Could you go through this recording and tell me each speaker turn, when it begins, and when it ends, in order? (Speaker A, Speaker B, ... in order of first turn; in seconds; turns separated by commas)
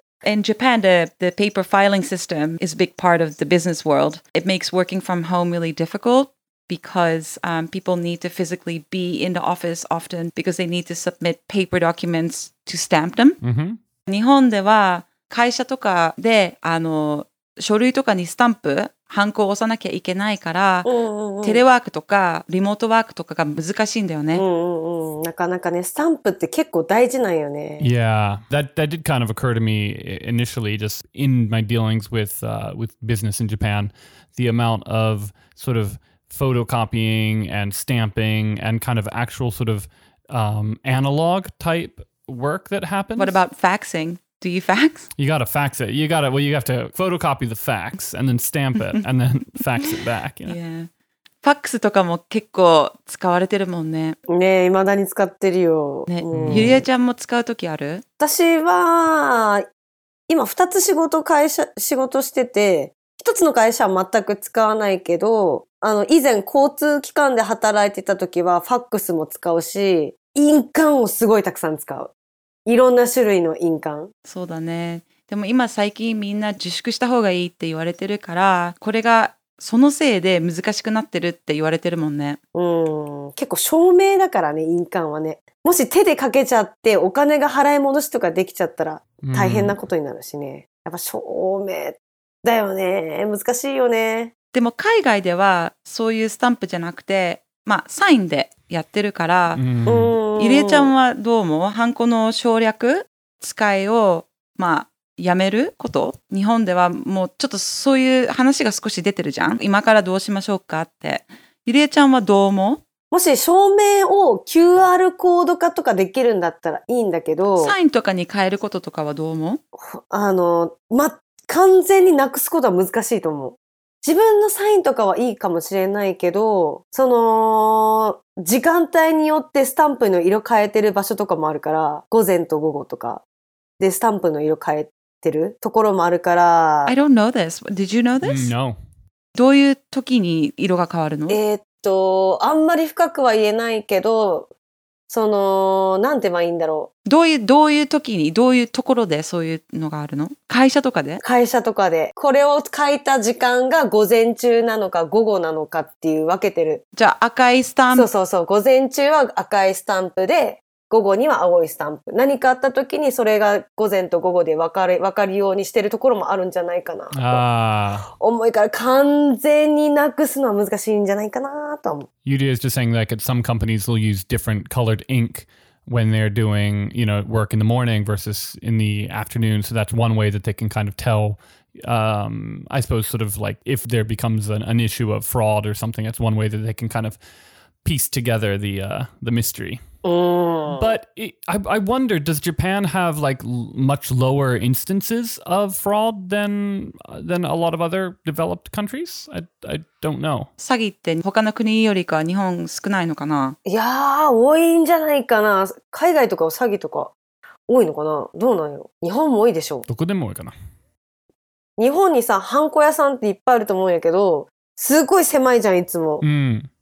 Speaker A: 0.2-13.4, Speaker B: 13.4-13.8, Speaker A: 14.1-20.9, Speaker C: 20.8-21.6, Speaker A: 21.4-24.4, Speaker C: 24.3-27.9, Speaker B: 27.8-43.4, Speaker A: 43.1-45.1, Speaker B: 45.2-50.6, Speaker A: 50.5-50.9, Speaker A: 51.4-54.1, Speaker C: 54.3-56.8, Speaker A: 56.1-58.0, Speaker B: 56.3-56.8, Speaker C: 58.2-59.6, Speaker C: 60.3-72.1, Speaker C: 72.7-74.1, Speaker A: 74.2-82.4, Speaker C: 82.5-94.3, Speaker B: 89.2-89.8, Speaker A: 94.5-99.6, Speaker B: 99.5-100.1, Speaker C: 99.8-100.9, Speaker A: 100.4-112.8, Speaker C: 113.1-117.7, Speaker A: 117.6-119.6, Speaker C: 119.7-133.2, Speaker C: 133.8-136.9, Speaker A: 136.8-138.5, Speaker B: 138.2-138.8, Speaker A: 139.3-141.4, Speaker C: 141.3-144.5, Speaker C: 145.1-146.9, Speaker A: 147.1-151.2, Speaker C: 151.2-156.8, Speaker A: 156.9-158.1, Speaker C: 157.9-167.4, Speaker B: 167.1-168.1, Speaker C: 168.1-172.1, Speaker B: 172.2-187.2, Speaker B: 187.8-189.8, Speaker C: 190.0-190.9, Speaker B: 190.7-200.5, Speaker A: 200.6-203.6, Speaker C: 203.6-207.1, Speaker C: 207.7-209.8, Speaker B: 209.9-210.5, Speaker C: 211.8-216.2, Speaker B: 216.2-216.7